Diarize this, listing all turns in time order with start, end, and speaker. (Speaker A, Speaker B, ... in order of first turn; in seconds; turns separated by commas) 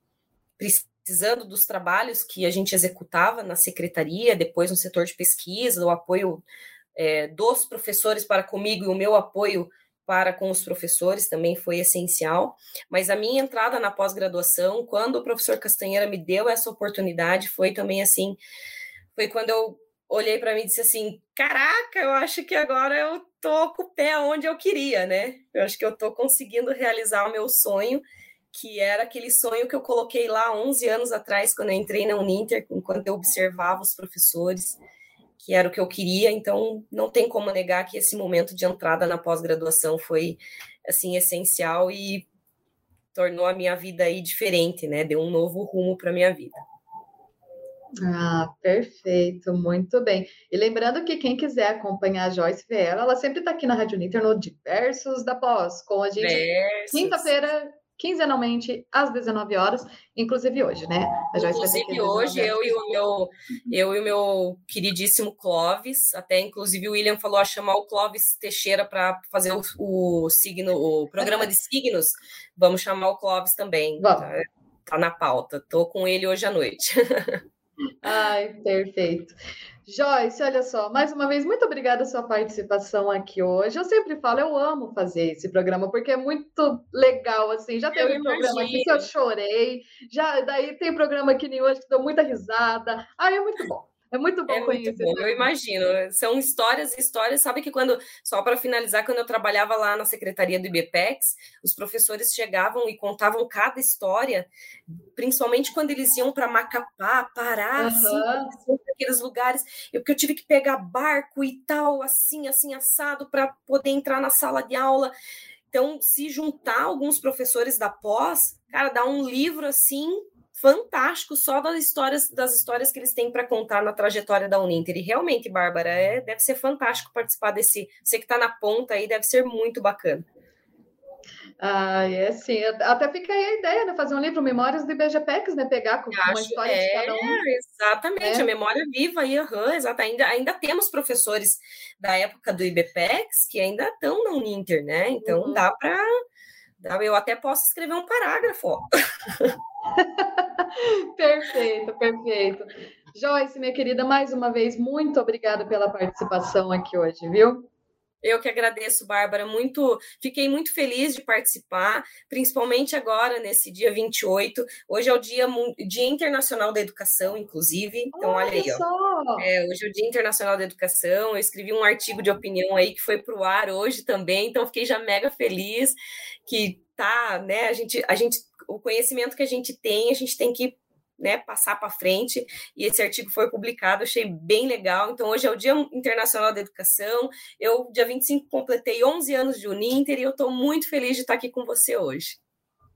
Speaker A: 0.6-6.4, Speaker A: 6.9-18.4, Speaker A: 19.1-28.0, Speaker A: 28.5-34.8, Speaker A: 35.4-42.2, Speaker A: 43.1-46.6, Speaker B: 48.0-63.0, Speaker A: 56.1-57.3, Speaker A: 61.3-77.4, Speaker B: 74.0-74.2, Speaker B: 78.0-79.3, Speaker B: 79.8-95.5, Speaker A: 87.9-89.1, Speaker A: 94.5-104.5, Speaker A: 105.1-115.1, Speaker B: 107.8-108.5, Speaker A: 115.7-130.2, Speaker B: 131.6-137.4, Speaker A: 136.1-146.1, Speaker B: 138.2-138.5, Speaker B: 145.2-145.6, Speaker A: 146.8-148.8, Speaker B: 150.0-157.7, Speaker A: 158.2-168.8, Speaker B: 168.1-169.5, Speaker A: 169.4-175.9, Speaker A: 176.4-192.4